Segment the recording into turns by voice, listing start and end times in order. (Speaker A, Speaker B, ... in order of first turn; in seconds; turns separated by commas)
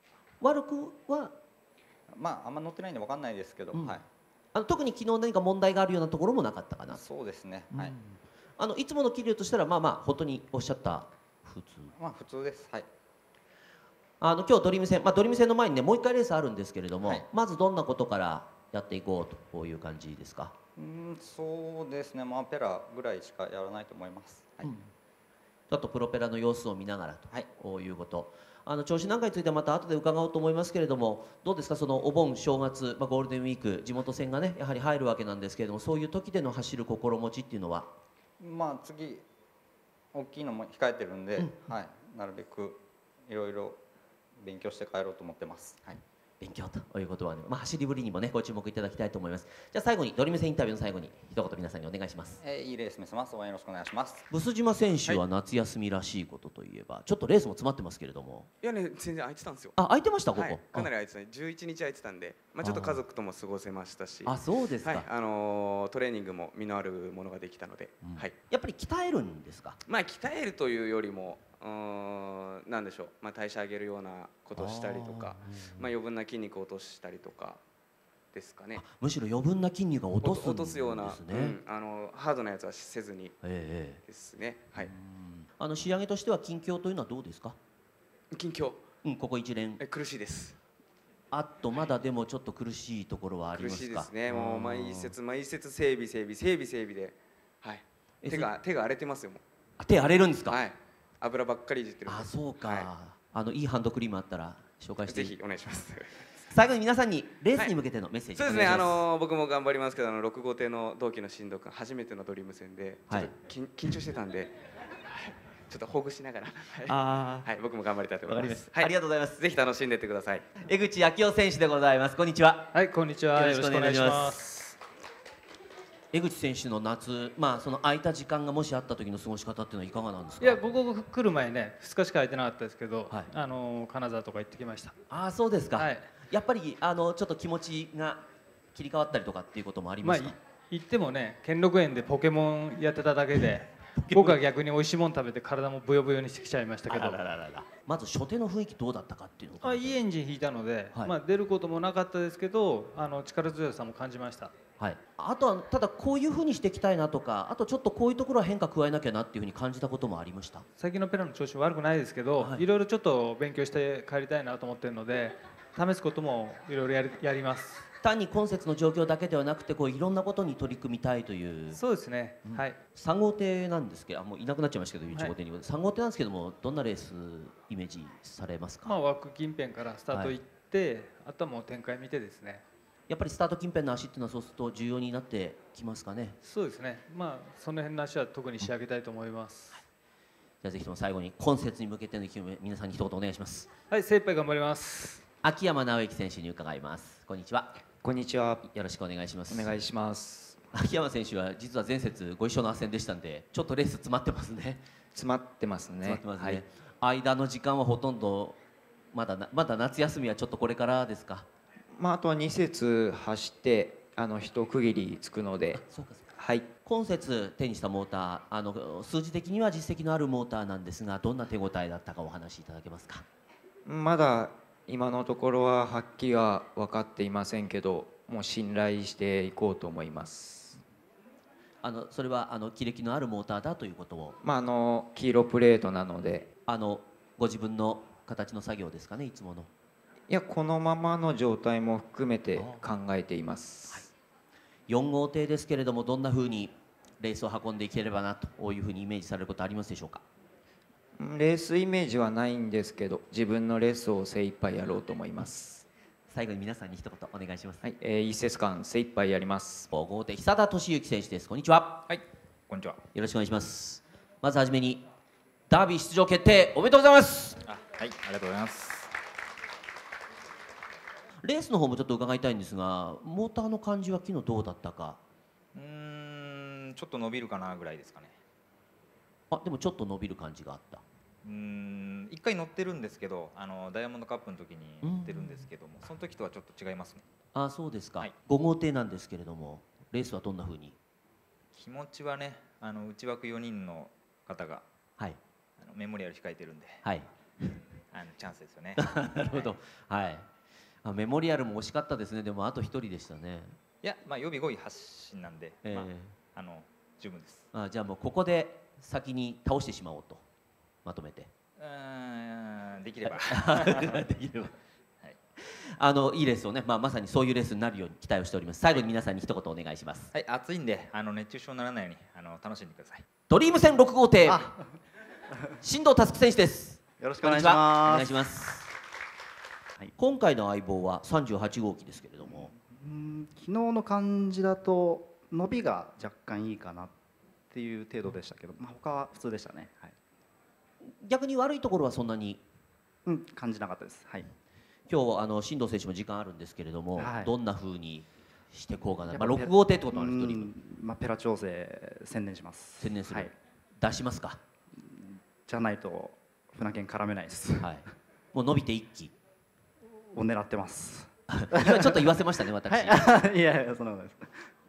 Speaker A: 0.4-1.4, Speaker B: 2.1-4.0, Speaker A: 4.5-7.0, Speaker B: 6.9-8.0, Speaker A: 7.7-11.9, Speaker B: 11.9-12.9, Speaker A: 14.2-20.6, Speaker B: 17.0-17.3, Speaker B: 20.8-24.7, Speaker A: 25.7-37.9, Speaker B: 38.4-39.2, Speaker B: 40.1-43.8, Speaker B: 44.4-46.0, Speaker A: 46.4-52.4, Speaker B: 52.4-54.3, Speaker A: 54.3-58.5, Speaker C: 58.6-59.8, Speaker A: 59.8-60.9, Speaker C: 60.3-68.3, Speaker A: 62.6-63.0, Speaker A: 64.2-65.1, Speaker A: 68.0-69.8, Speaker C: 69.9-77.6, Speaker A: 74.5-75.8, Speaker C: 78.3-78.8, Speaker A: 78.8-81.6, Speaker C: 80.2-83.3, Speaker A: 83.4-84.0, Speaker C: 84.1-84.9, Speaker A: 84.8-87.6, Speaker C: 88.3-88.8, Speaker A: 89.0-89.8, Speaker C: 89.8-90.6, Speaker A: 91.3-95.1, Speaker C: 93.5-99.4, Speaker A: 98.2-98.5, Speaker A: 99.8-100.6, Speaker C: 100.5-102.9, Speaker A: 102.1-105.4, Speaker C: 105.1-106.1, Speaker A: 106.5-109.0, Speaker C: 108.3-114.5, Speaker C: 115.7-120.5, Speaker A: 116.9-117.5, Speaker A: 118.3-119.4, Speaker A: 120.6-122.7, Speaker D: 122.7-124.8, Speaker A: 123.3-124.4, Speaker A: 126.1-130.6, Speaker D: 130.4-134.9, Speaker A: 135.1-138.2, Speaker D: 135.8-136.1, Speaker A: 138.8-140.3, Speaker D: 140.0-147.2, Speaker A: 144.0-144.4, Speaker A: 146.9-150.0, Speaker D: 149.6-154.5, Speaker A: 154.8-160.7, Speaker D: 160.8-167.9, Speaker A: 168.0-171.8, Speaker D: 171.7-172.8, Speaker A: 172.4-179.0, Speaker D: 178.8-182.6, Speaker A: 183.1-186.4, Speaker D: 186.4-189.8, Speaker A: 190.6-193.7, Speaker D: 193.9-195.2, Speaker A: 195.4-197.7, Speaker E: 198.0-198.7, Speaker A: 198.7-199.7, Speaker E: 199.5-200.6, Speaker A: 200.7-204.8, Speaker E: 205.2-206.6, Speaker A: 206.0-208.6, Speaker A: 209.1-211.5, Speaker E: 211.9-215.8, Speaker A: 215.7-216.3, Speaker E: 216.4-216.7, Speaker A: 216.8-223.2, Speaker E: 223.9-230.8, Speaker A: 231.8-234.4, Speaker E: 234.4-236.5, Speaker A: 236.7-239.7, Speaker E: 240.3-244.1, Speaker A: 242.6-242.8, Speaker A: 244.9-250.2, Speaker E: 251.2-255.9, Speaker A: 256.3-257.8, Speaker E: 257.8-259.9, Speaker A: 259.9-262.1, Speaker F: 262.1-263.0, Speaker A: 263.1-265.0, Speaker A: 265.7-267.6, Speaker F: 267.7-269.1, Speaker A: 271.4-275.2, Speaker F: 275.7-278.4, Speaker A: 279.5-281.0, Speaker F: 281.4-287.2, Speaker A: 285.0-285.6, Speaker A: 287.6-291.0, Speaker F: 291.7-294.9, Speaker F: 295.8-297.0, Speaker A: 297.1-297.8, Speaker F: 298.1-299.7, Speaker A: 299.0-300.5, Speaker A: 301.1-303.8, Speaker F: 304.0-307.7, Speaker A: 305.8-306.3, Speaker A: 307.7-310.4, Speaker A: 311.1-311.5, Speaker F: 311.8-314.3, Speaker A: 313.4-314.7, Speaker A: 315.6-320.3, Speaker F: 320.3-323.3, Speaker A: 323.5-324.7, Speaker G: 324.4-324.7, Speaker A: 325.8-328.9, Speaker G: 327.2-328.4, Speaker A: 330.2-332.7, Speaker G: 332.5-337.1, Speaker G: 337.7-340.2, Speaker A: 341.2-342.6, Speaker G: 343.3-344.5, Speaker A: 345.1-350.7, Speaker G: 347.2-347.5, Speaker G: 349.3-353.5, Speaker A: 353.0-354.6, Speaker G: 355.0-358.0, Speaker A: 357.8-359.3, Speaker G: 360.1-364.6, Speaker A: 361.5-363.2